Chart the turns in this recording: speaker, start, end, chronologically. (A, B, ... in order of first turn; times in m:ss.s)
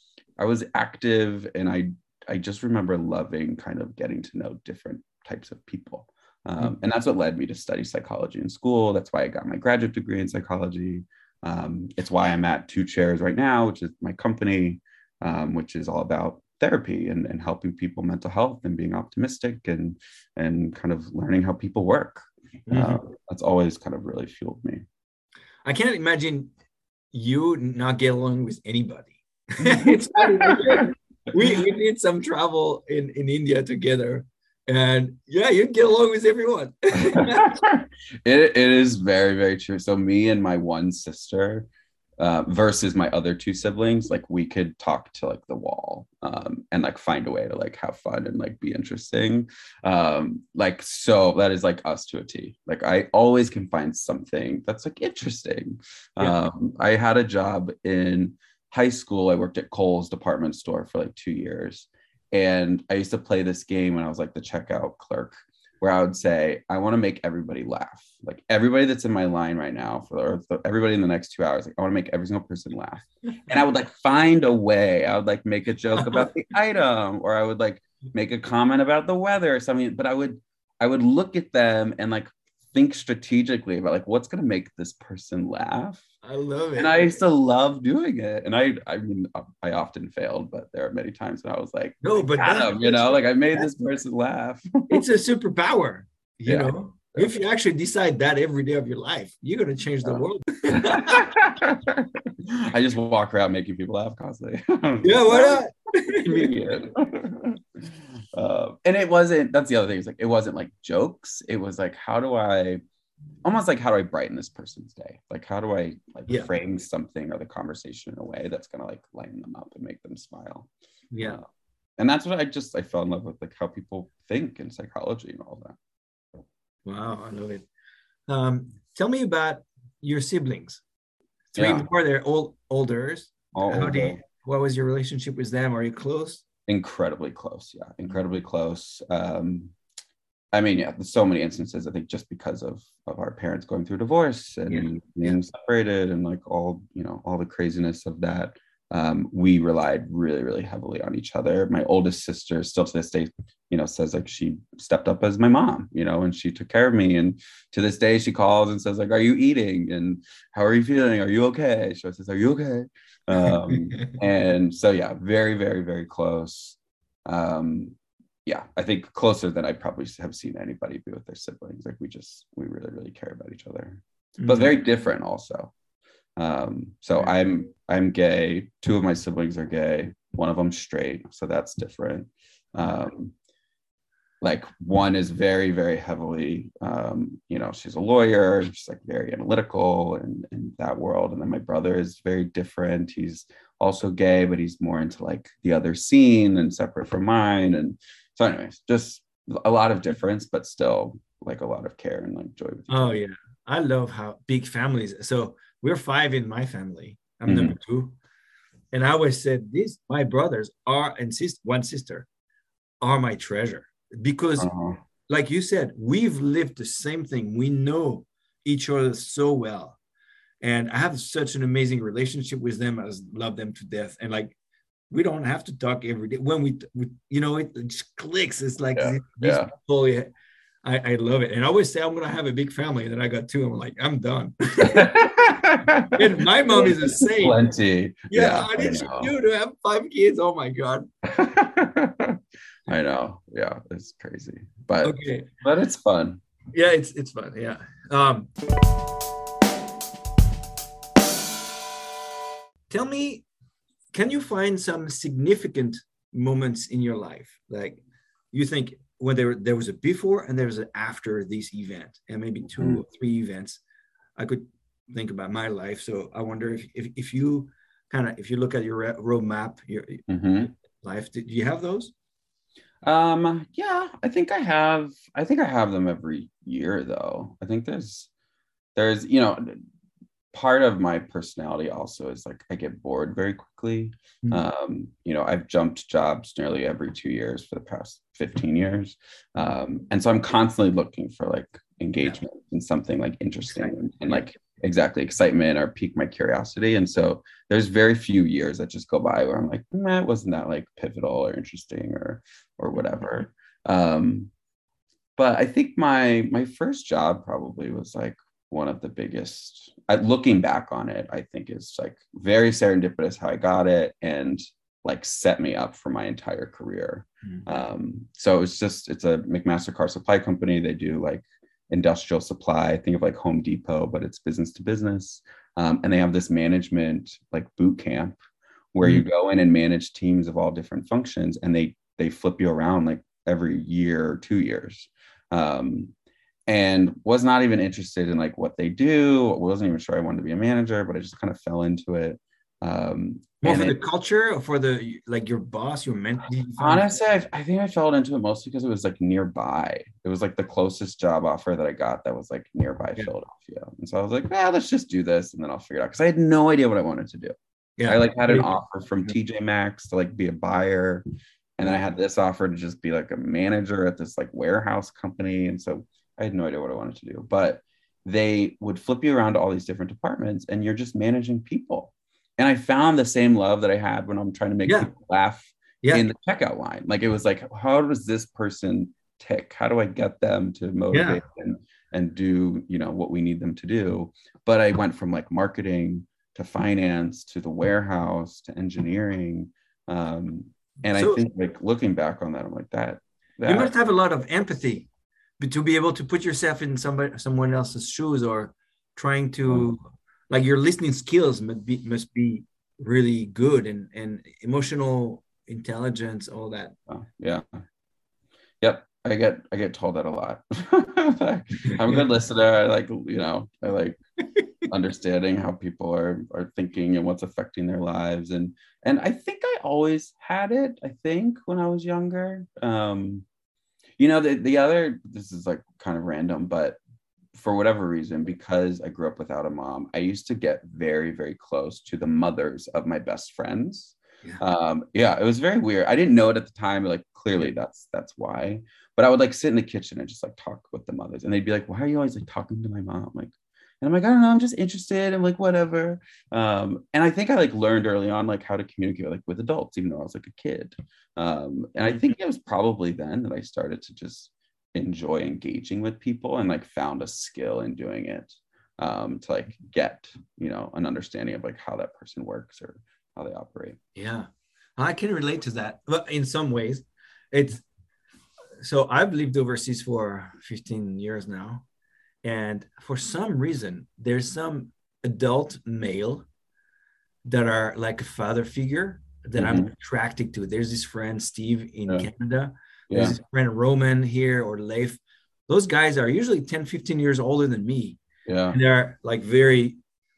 0:00.4-0:24.8 A
0:22.7-0:23.0 B
0:25.6-0:26.5 B
0:27.1-0:37.6 B
0:29.6-0:30.8 A
0:36.9-0:41.7 A
0:42.2-1:26.0 A
1:26.2-1:27.1 B
1:26.8-1:35.0 A
1:32.0-1:33.7 B
1:34.9-1:41.3 B
1:36.4-1:37.4 A
1:40.7-1:45.6 A
1:45.0-1:46.5 B
1:46.2-1:52.8 A
1:53.4-2:00.7 A
2:01.1-2:01.4 B
2:02.0-2:05.8 A
2:06.8-2:07.6 B
2:08.3-2:10.8 B
2:11.5-2:16.4 B
2:11.6-2:11.9 A
2:13.5-2:14.2 A
2:16.7-2:19.7 A
2:20.5-2:47.9 A
2:24.7-2:25.3 B
2:43.4-2:43.7 B
2:48.4-2:55.7 A
2:54.4-2:54.7 B
2:56.4-3:03.3 A
3:04.4-3:23.2 A
3:22.9-3:28.2 B
3:27.5-3:27.8 A
3:28.9-3:32.3 B
3:33.0-3:34.7 B
3:34.6-3:35.0 A
3:35.3-3:40.0 B
3:40.6-3:44.5 B
3:45.1-3:50.3 B
3:48.9-3:49.7 A
3:50.8-3:55.2 B
3:54.8-3:59.3 A
3:56.1-3:57.6 B
3:58.3-4:01.1 B
4:01.2-4:06.4 A
4:05.0-4:05.5 B
4:06.7-4:08.5 B
4:12.9-4:13.4 B
4:14.1-4:23.8 B
4:22.8-4:23.0 A
4:24.4-4:32.1 B
4:30.3-4:30.7 A
4:33.0-4:38.3 A
4:39.0-4:39.8 A
4:40.5-5:04.5 A
4:53.8-4:54.3 B
5:05.4-5:28.4 A
5:28.9-5:36.1 A
5:36.7-5:44.0 A
5:43.6-5:47.0 B
5:46.8-5:57.5 A
5:58.0-5:58.7 B
5:58.0-6:01.2 A
6:01.8-6:33.9 A
6:21.1-6:21.4 B
6:31.1-6:31.4 B
6:33.6-6:35.1 B
6:35.6-6:46.9 B
6:47.1-6:47.8 A
6:48.8-6:54.2 A
6:54.8-7:03.4 A
7:04.2-7:07.0 A
7:07.5-7:44.0 A
7:44.2-7:47.8 B
7:48.8-7:51.8 B
7:52.4-7:56.4 B
7:57.4-8:10.0 B
7:59.6-7:59.9 A
8:03.1-8:03.4 A
8:08.5-8:08.8 A